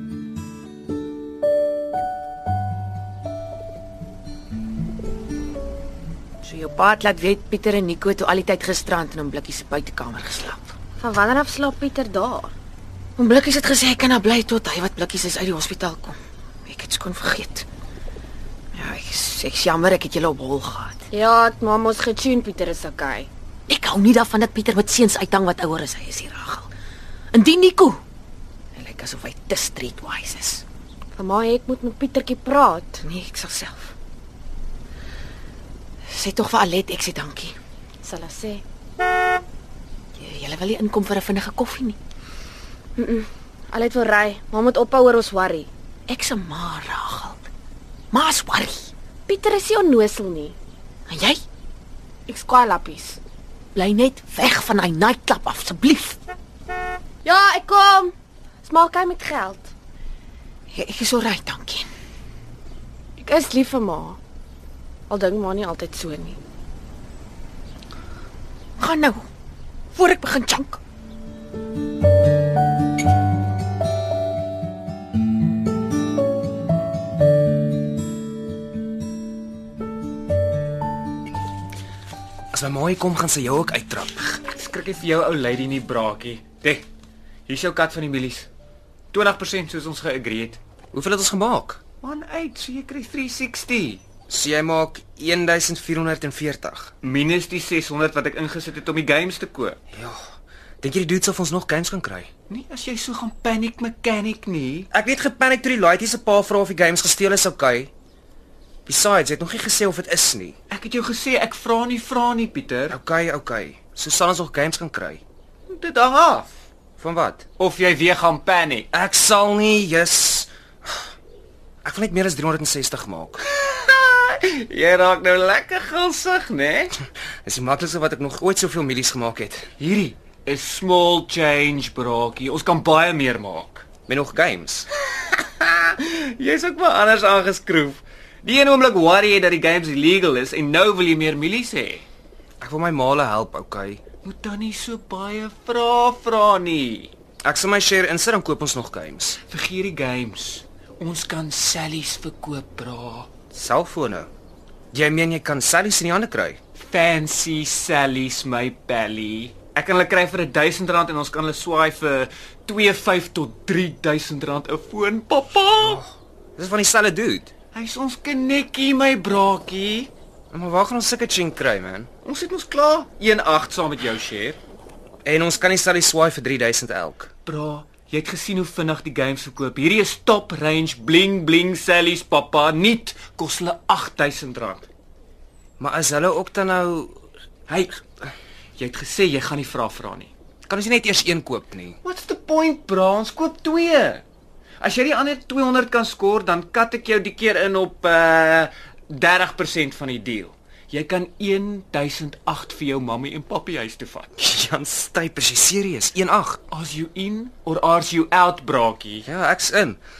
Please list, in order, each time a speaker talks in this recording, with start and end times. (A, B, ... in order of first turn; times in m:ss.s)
0:06.4-0:10.6 A
0:11.0-0:12.5 B
0:13.2-0:17.6 A
0:18.7-0:21.0 A
0:21.1-0:23.3 B
0:23.7-0:26.7 A
0:27.3-0:28.0 A
0:28.7-0:30.6 A
0:31.2-0:33.0 B
0:33.0-0:33.9 A
0:36.1-0:37.5 A
0:38.0-0:38.6 B
0:40.2-0:42.0 A
0:43.0-0:45.7 B
0:46.1-0:47.4 A
0:48.1-0:48.9 A
0:49.3-0:50.6 B
0:51.1-0:51.4 A
0:52.3-0:53.2 B
0:53.7-0:56.2 A
0:57.2-0:59.7 B
1:00.7-1:01.9 A
1:03.2-1:04.2 B
1:05.1-1:06.4 B
1:08.8-1:09.3 A
1:09.9-1:10.8 A
1:22.5-1:24.4 C
1:24.5-1:26.8 D
1:27.5-1:28.5 D
1:29.1-1:30.6 D
1:30.9-1:31.8 C
1:32.0-1:34.0 D
1:34.3-1:36.9 C
1:37.0-1:39.8 D
1:39.9-1:42.3 C
1:42.5-1:44.9 D
1:44.9-1:47.9 C
1:48.8-1:50.6 C
1:50.7-1:53.0 D
1:52.9-1:55.2 C
1:55.7-1:56.5 D
1:57.0-1:57.5 C
1:57.6-1:58.9 D
1:58.9-2:01.0 C
2:01.8-2:03.4 C
2:03.5-2:06.9 D
2:07.4-2:09.7 C
2:09.8-2:13.8 D
2:14.1-2:14.9 C
2:15.3-2:22.0 D
2:22.6-2:24.0 C
2:24.2-2:27.1 D
2:27.4-2:29.4 C
2:29.5-2:33.3 D
2:33.5-2:34.3 C
2:34.9-2:36.6 C
2:36.8-2:46.0 D
2:45.8-2:47.5 C
2:47.7-2:50.1 D
2:50.5-2:52.1 C
2:52.2-2:54.6 D
2:55.2-2:57.3 C
2:57.4-3:04.8 D
3:05.8-3:07.2 C
3:07.7-3:08.0 D
3:08.8-3:10.3 D
3:10.7-3:12.0 C
3:12.0-3:14.2 D
3:14.8-3:24.3 D
3:24.4-3:26.6 C
3:26.7-3:29.3 D
3:29.2-3:30.0 C